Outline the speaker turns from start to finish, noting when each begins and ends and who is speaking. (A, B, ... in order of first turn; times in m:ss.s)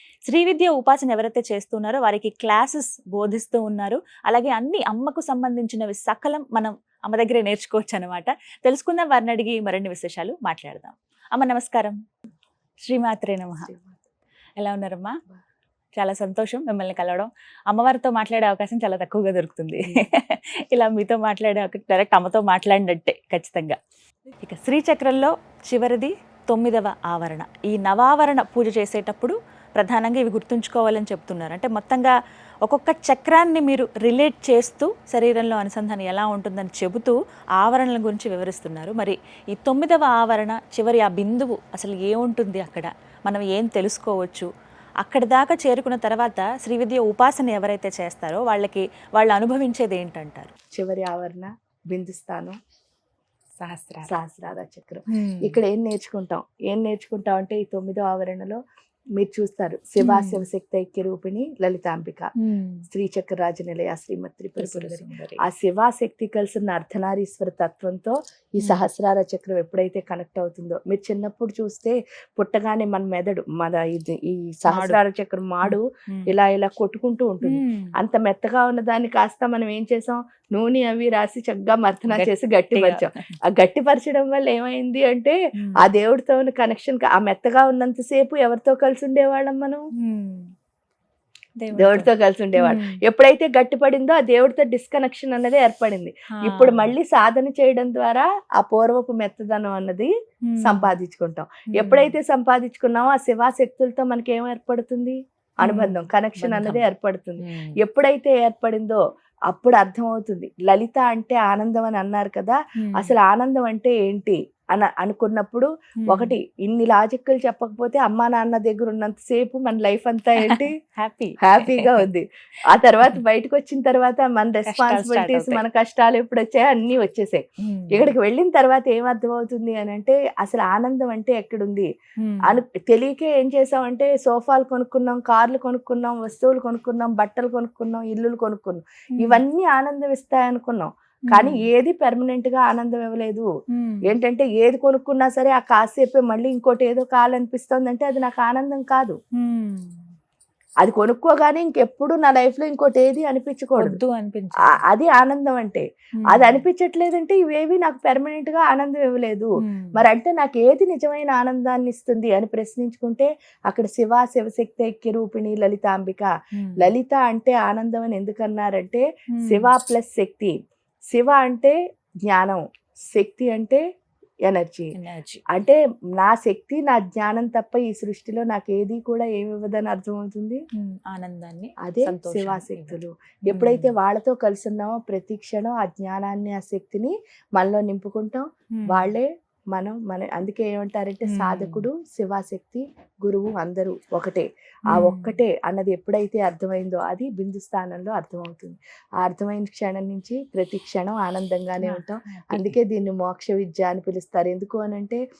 0:00.3-0:12.0 A
0:12.8-0:13.7 A
0:13.6-0:14.0 B
0:14.6-0:15.2 A
0:16.0-0:23.8 A
0:24.4-0:44.5 A
0:45.0-0:50.5 A
0:50.7-0:52.5 B
0:53.6-0:54.2 A
0:54.0-0:58.6 B
0:55.1-0:55.6 A
0:59.2-1:02.3 B
1:00.0-1:00.4 A
1:02.4-1:02.9 A
1:02.9-1:29.8 B
1:04.6-1:05.4 A
1:08.6-1:08.9 A
1:14.7-1:15.0 A
1:15.6-1:16.3 A
1:17.4-1:17.9 A
1:22.1-1:23.4 A
1:25.6-1:25.8 A
1:30.0-1:30.5 A
1:31.6-1:33.0 A
1:31.7-1:40.1 B
1:36.3-1:37.0 A
1:40.4-1:40.9 A
1:40.6-2:00.7 B
1:41.7-1:42.2 A
1:45.6-1:46.9 A
1:47.4-1:47.8 A
1:52.8-1:53.2 A
1:56.0-1:56.4 A
2:00.3-2:02.1 A
2:01.4-2:11.9 B
2:04.6-2:05.6 A
2:07.6-2:08.1 A
2:12.2-2:12.6 A
2:12.4-2:23.5 B
2:19.1-2:19.4 A
2:21.3-2:21.7 A
2:23.7-2:24.1 A
2:24.0-2:29.2 B
2:29.3-2:30.0 A
2:30.8-2:34.0 B
2:33.8-2:34.8 A
2:34.6-2:50.6 B
2:36.1-2:36.6 A
2:39.6-2:40.0 A
2:46.6-2:47.0 A
2:49.3-2:49.7 A
2:51.1-2:51.7 B
2:52.2-2:52.6 B
2:53.1-2:53.8 B
2:54.4-2:54.9 B
2:54.9-2:55.4 A
2:55.5-3:00.6 B
3:00.7-3:03.9 A
3:01.8-3:25.2 B
3:08.7-3:09.2 A
3:11.2-3:11.8 A
3:14.9-3:15.4 A
3:21.8-3:22.8 A